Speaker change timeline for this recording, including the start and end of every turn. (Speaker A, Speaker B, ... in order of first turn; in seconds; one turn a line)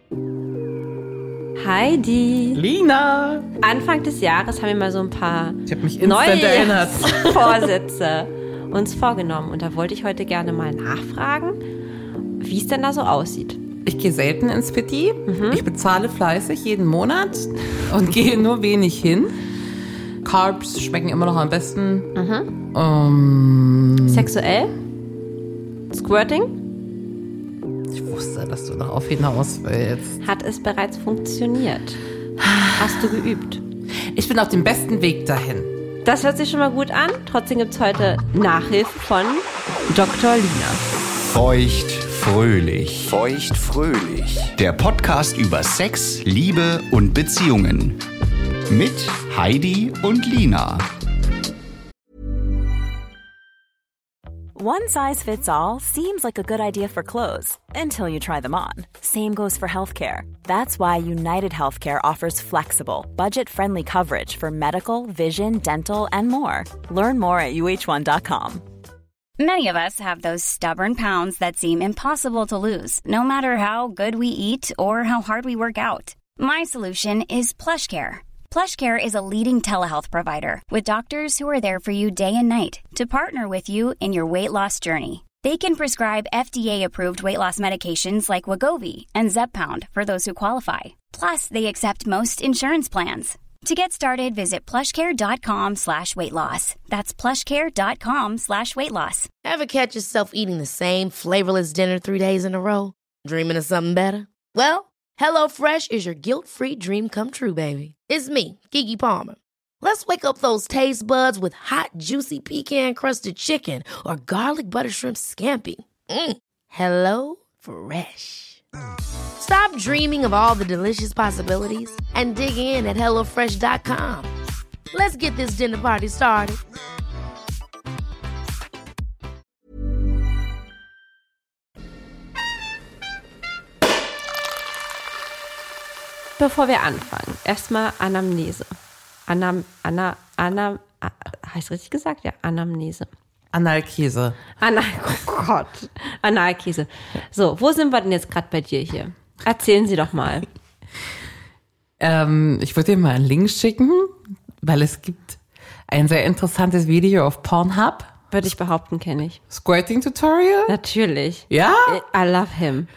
Speaker A: 1.6-2.6
Speaker B: 2.5-3.5
Speaker A: 3.6-11.6
Speaker B: 5.7-7.7
Speaker A: 12.4-13.6
Speaker B: 13.8-19.4
Speaker A: 15.3-15.6
Speaker B: 20.2-22.1
Speaker A: 22.1-22.5
Speaker B: 22.7-24.3
Speaker A: 24.0-24.7
Speaker A: 25.9-26.6
Speaker B: 27.9-30.2
Speaker A: 30.2-32.0
Speaker B: 32.4-33.2
Speaker A: 32.8-33.6
Speaker B: 34.1-35.7
Speaker A: 36.0-40.8
Speaker C: 41.3-48.0
Speaker C: 48.7-50.9
Speaker D: 54.5-68.6
Speaker E: 69.4-99.3
Speaker F: 99.4-118.6
Speaker F: 119.4-124.3
Speaker F: 124.9-126.6
Speaker A: 136.4-138.7
Speaker A: 139.3-143.1
Speaker B: 143.5-144.4
Speaker A: 144.6-150.4
Speaker B: 152.0-158.1
Speaker A: 158.3-159.4
Speaker B: 159.5-160.7
Speaker A: 160.7-162.9
Speaker B: 161.5-162.0